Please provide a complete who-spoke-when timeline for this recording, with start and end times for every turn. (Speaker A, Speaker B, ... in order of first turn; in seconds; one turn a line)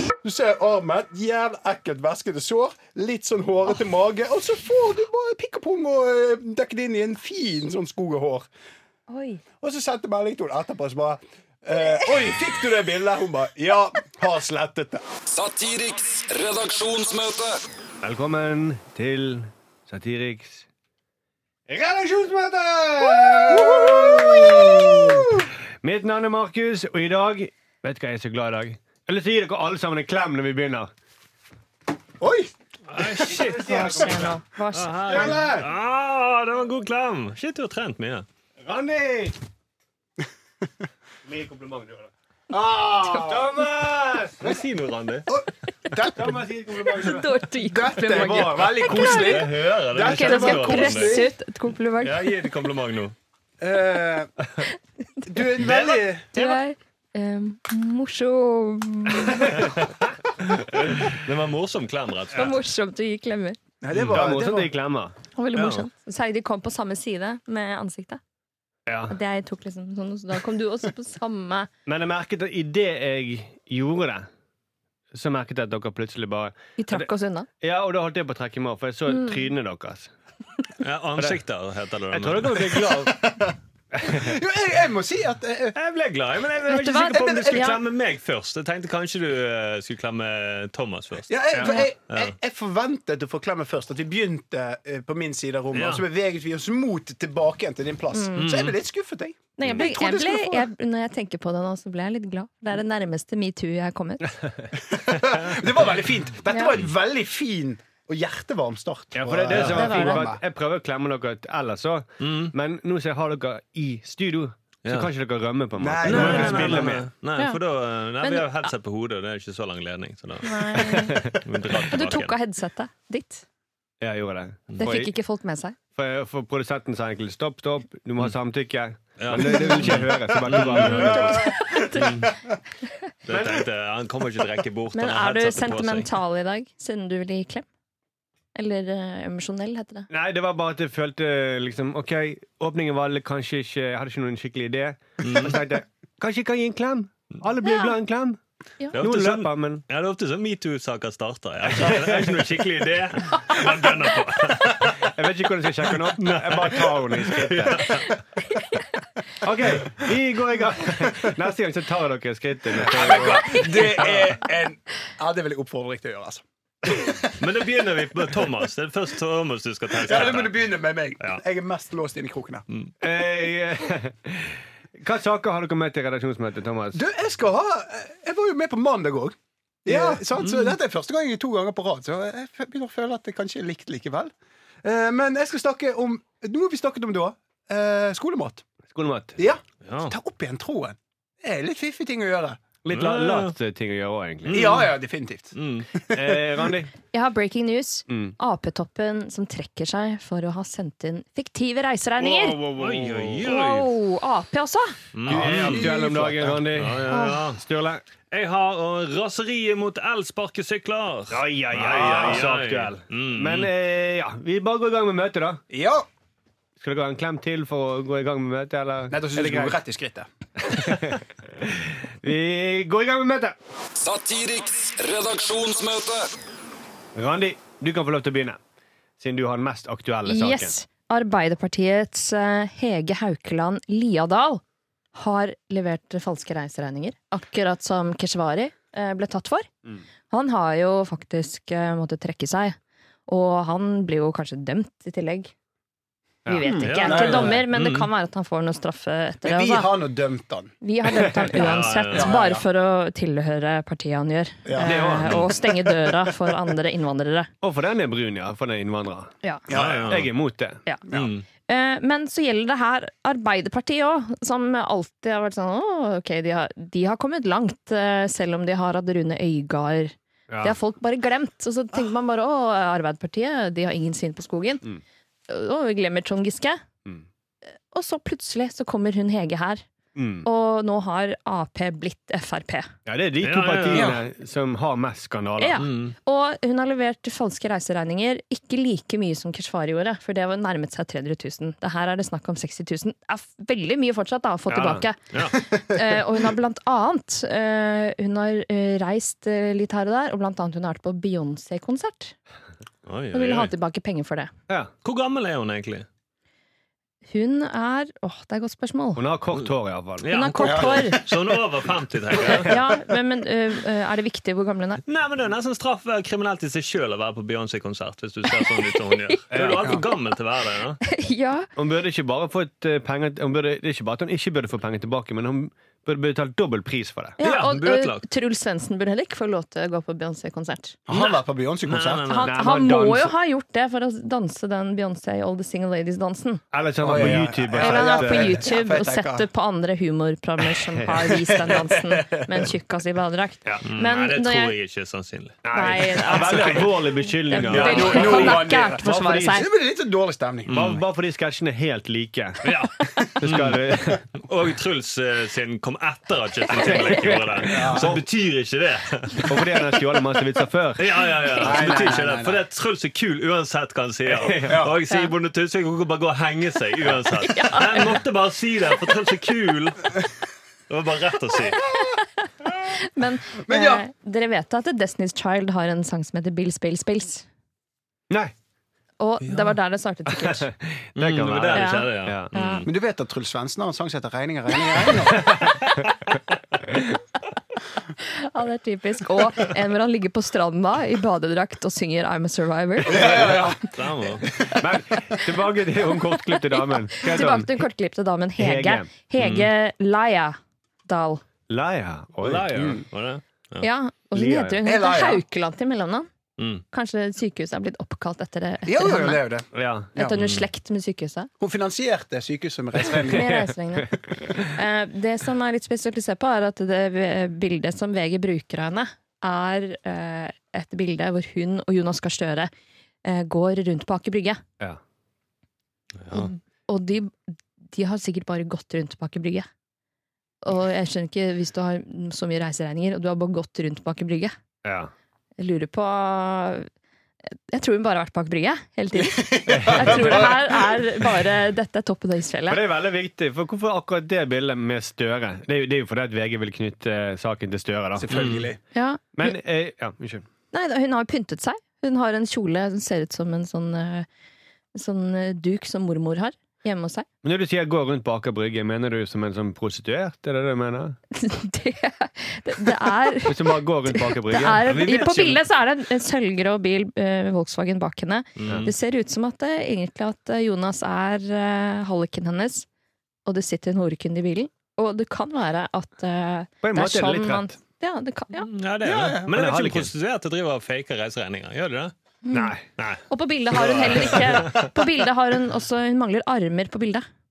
Speaker A: 0.2-8.5
Speaker B: 9.1-9.4
Speaker A: 9.6-15.0
Speaker C: 15.3-17.6
Speaker D: 18.0-20.7
Speaker D: 21.7-25.3
Speaker A: 23.0-25.5
Speaker D: 25.8-30.9
Speaker A: 32.2-32.5
Speaker E: 32.9-38.2
Speaker D: 33.2-34.3
Speaker B: 33.6-35.4
Speaker D: 35.1-35.7
Speaker D: 38.6-39.4
Speaker D: 41.2-42.1
Speaker A: 42.5-43.5
Speaker B: 43.1-43.4
Speaker D: 43.2-44.6
Speaker E: 44.4-45.3
Speaker A: 45.3-47.1
Speaker D: 46.0-47.5
Speaker B: 46.9-52.3
Speaker A: 47.6-51.3
Speaker D: 48.0-49.2
Speaker E: 49.0-51.2
Speaker E: 52.0-53.1
Speaker A: 53.6-54.3
Speaker B: 55.2-55.5
Speaker A: 55.3-56.6
Speaker E: 55.6-56.0
Speaker B: 56.3-59.7
Speaker D: 59.1-59.8
Speaker E: 60.5-62.6
Speaker B: 62.3-63.6
Speaker A: 63.8-64.7
Speaker E: 63.9-64.2
Speaker D: 64.1-65.2
Speaker B: 65.4-68.2
Speaker E: 65.5-65.9
Speaker D: 68.9-69.2
Speaker B: 69.1-71.7
Speaker D: 71.9-74.3
Speaker D: 75.1-77.1
Speaker B: 76.8-77.5
Speaker D: 77.6-80.1
Speaker B: 79.1-79.5
Speaker E: 80.8-82.7
Speaker D: 82.1-83.3
Speaker A: 83.0-85.8
Speaker D: 83.9-84.4
Speaker E: 85.8-92.3
Speaker B: 86.7-87.8
Speaker A: 87.1-87.7
Speaker A: 91.3-100.7
Speaker B: 91.6-91.9
Speaker E: 95.7-96.0
Speaker B: 98.1-98.5
Speaker E: 98.4-98.8
Speaker B: 99.6-104.3
Speaker A: 104.7-110.4
Speaker B: 106.5-106.8
Speaker D: 109.1-117.0
Speaker E: 109.5-109.9
Speaker B: 109.7-110.3
Speaker E: 112.2-112.5
Speaker A: 115.8-117.0
Speaker E: 116.0-122.3
Speaker B: 118.2-118.7
Speaker B: 120.4-121.2
Speaker D: 120.9-121.2
Speaker B: 121.9-123.5
Speaker D: 124.0-125.1
Speaker B: 124.8-125.8
Speaker D: 126.0-131.6
Speaker E: 129.2-131.2
Speaker B: 130.8-132.2
Speaker A: 131.1-132.4
Speaker E: 131.9-132.2
Speaker E: 133.2-136.1
Speaker D: 133.3-133.7
Speaker B: 134.9-137.7
Speaker B: 138.6-140.1
Speaker D: 140.1-148.4
Speaker E: 145.2-145.6
Speaker B: 147.6-147.9
Speaker E: 148.9-155.1
Speaker D: 149.0-149.8
Speaker D: 151.7-152.4
Speaker D: 155.0-158.1
Speaker E: 156.0-158.2
Speaker B: 157.9-158.7
Speaker D: 159.4-164.2
Speaker A: 162.8-167.4
Speaker E: 163.8-164.3
Speaker E: 167.4-170.7
Speaker A: 169.9-172.7
Speaker D: 173.0-177.0
Speaker A: 176.9-184.3
Speaker D: 179.9-180.4
Speaker E: 180.4-180.7
Speaker A: 184.8-188.7
Speaker D: 188.9-189.4
Speaker A: 189.4-192.6
Speaker E: 189.8-190.2
Speaker D: 192.8-194.8
Speaker E: 192.9-193.6
Speaker E: 194.5-194.9
Speaker A: 194.5-196.7
Speaker E: 195.5-195.9
Speaker D: 196.1-196.9
Speaker B: 197.1-202.6
Speaker D: 198.1-198.3
Speaker D: 202.2-203.5
Speaker E: 202.8-203.9
Speaker B: 203.4-205.0
Speaker E: 205.1-206.0
Speaker D: 205.3-208.0
Speaker A: 205.3-206.6
Speaker E: 206.7-207.6
Speaker B: 207.1-207.4
Speaker E: 208.3-213.7
Speaker D: 211.3-215.6
Speaker A: 211.9-212.4
Speaker A: 215.7-216.1
Speaker D: 216.8-219.8
Speaker A: 219.1-220.3
Speaker D: 220.6-223.6
Speaker C: 224.0-226.3
Speaker D: 227.2-228.6
Speaker D: 229.2-230.7
Speaker B: 230.3-234.6
Speaker B: 235.1-239.7
Speaker B: 240.3-242.8
Speaker B: 243.3-245.5
Speaker D: 246.5-247.1
Speaker B: 246.5-249.9
Speaker E: 246.8-248.1
Speaker A: 247.0-247.6
Speaker A: 249.4-250.7
Speaker B: 250.8-257.5
Speaker E: 251.5-252.4
Speaker A: 251.5-252.6
Speaker A: 254.7-254.9
Speaker D: 254.8-255.4
Speaker A: 255.6-256.3
Speaker D: 257.6-259.3
Speaker A: 259.7-260.2
Speaker E: 259.7-260.3
Speaker D: 260.1-260.8
Speaker E: 261.1-261.4
Speaker B: 261.7-274.8
Speaker D: 270.5-270.8
Speaker B: 275.5-276.8
Speaker B: 277.9-279.8
Speaker D: 280.2-280.5
Speaker B: 280.4-282.9
Speaker D: 283.1-285.8
Speaker E: 283.4-284.2
Speaker A: 283.9-284.2
Speaker B: 285.6-302.4
Speaker E: 285.8-286.1
Speaker D: 294.7-295.1
Speaker E: 303.1-303.7
Speaker B: 303.3-304.5
Speaker E: 305.0-306.1
Speaker B: 307.3-309.2
Speaker D: 309.2-310.4
Speaker E: 310.2-312.8
Speaker B: 310.3-311.2
Speaker A: 310.6-311.4
Speaker B: 312.6-315.0
Speaker E: 315.1-321.0
Speaker B: 318.6-319.3
Speaker D: 319.5-320.0
Speaker B: 321.0-321.7
Speaker D: 321.8-327.4
Speaker B: 327.4-331.0
Speaker E: 327.4-328.2
Speaker A: 331.1-332.2
Speaker E: 331.1-332.5
Speaker B: 332.3-336.6
Speaker D: 332.4-333.3
Speaker D: 336.7-338.6
Speaker A: 337.0-339.5
Speaker B: 337.2-344.7
Speaker A: 341.3-342.7
Speaker E: 343.9-345.6
Speaker D: 345.6-349.6
Speaker B: 345.7-349.7
Speaker A: 346.3-346.9
Speaker E: 347.7-348.5
Speaker A: 347.7-350.8
Speaker E: 350.7-351.0
Speaker D: 350.7-352.7
Speaker E: 352.6-353.8
Speaker D: 353.4-354.3
Speaker E: 354.4-359.5
Speaker B: 356.8-357.4
Speaker D: 356.8-358.2
Speaker A: 357.6-358.2
Speaker D: 359.4-361.9
Speaker E: 361.0-370.2
Speaker B: 361.5-362.0
Speaker A: 361.6-362.6
Speaker D: 364.3-364.9
Speaker A: 364.6-364.9
Speaker B: 367.4-368.2
Speaker E: 370.9-371.9
Speaker B: 371.8-372.2
Speaker B: 372.8-377.5
Speaker A: 373.6-374.0
Speaker B: 379.2-380.7
Speaker E: 379.4-379.8
Speaker D: 380.4-382.9
Speaker E: 381.2-382.9
Speaker B: 381.7-382.1
Speaker A: 382.6-385.7
Speaker E: 386.0-386.3
Speaker B: 388.2-393.6
Speaker A: 393.1-393.9
Speaker E: 393.1-394.5
Speaker A: 394.5-394.8
Speaker D: 394.8-397.8
Speaker B: 395.1-395.4
Speaker B: 396.3-401.4
Speaker D: 398.6-399.1
Speaker E: 399.4-399.7
Speaker D: 401.7-403.0
Speaker E: 402.4-403.9
Speaker B: 403.8-406.3
Speaker D: 404.3-404.8
Speaker A: 404.8-405.4
Speaker E: 406.6-406.8
Speaker B: 406.9-409.4
Speaker A: 408.9-410.4
Speaker D: 409.7-410.1
Speaker B: 410.1-411.5
Speaker E: 410.4-410.6
Speaker A: 411.6-413.6
Speaker D: 413.0-414.7
Speaker B: 413.2-422.7
Speaker B: 423.2-424.6
Speaker B: 426.3-429.7
Speaker B: 430.6-434.5
Speaker D: 434.8-435.1
Speaker B: 435.6-436.9
Speaker B: 437.5-442.8
Speaker A: 439.2-440.9
Speaker D: 439.7-440.6
Speaker D: 442.7-448.6
Speaker A: 448.2-448.8
Speaker E: 448.3-448.7
Speaker B: 448.9-449.6
Speaker D: 449.3-450.5
Speaker B: 450.7-454.3
Speaker B: 454.9-457.3
Speaker D: 457.4-461.2
Speaker B: 461.3-472.9
Speaker D: 463.4-464.8
Speaker E: 464.8-465.6
Speaker E: 468.6-468.9
Speaker D: 468.7-468.9
Speaker B: 473.5-478.7
Speaker D: 476.8-477.7
Speaker E: 478.6-482.1
Speaker A: 479.0-479.5
Speaker D: 479.5-480.1
Speaker B: 482.4-482.8
Speaker D: 482.5-482.9
Speaker E: 483.0-484.9
Speaker B: 483.3-487.2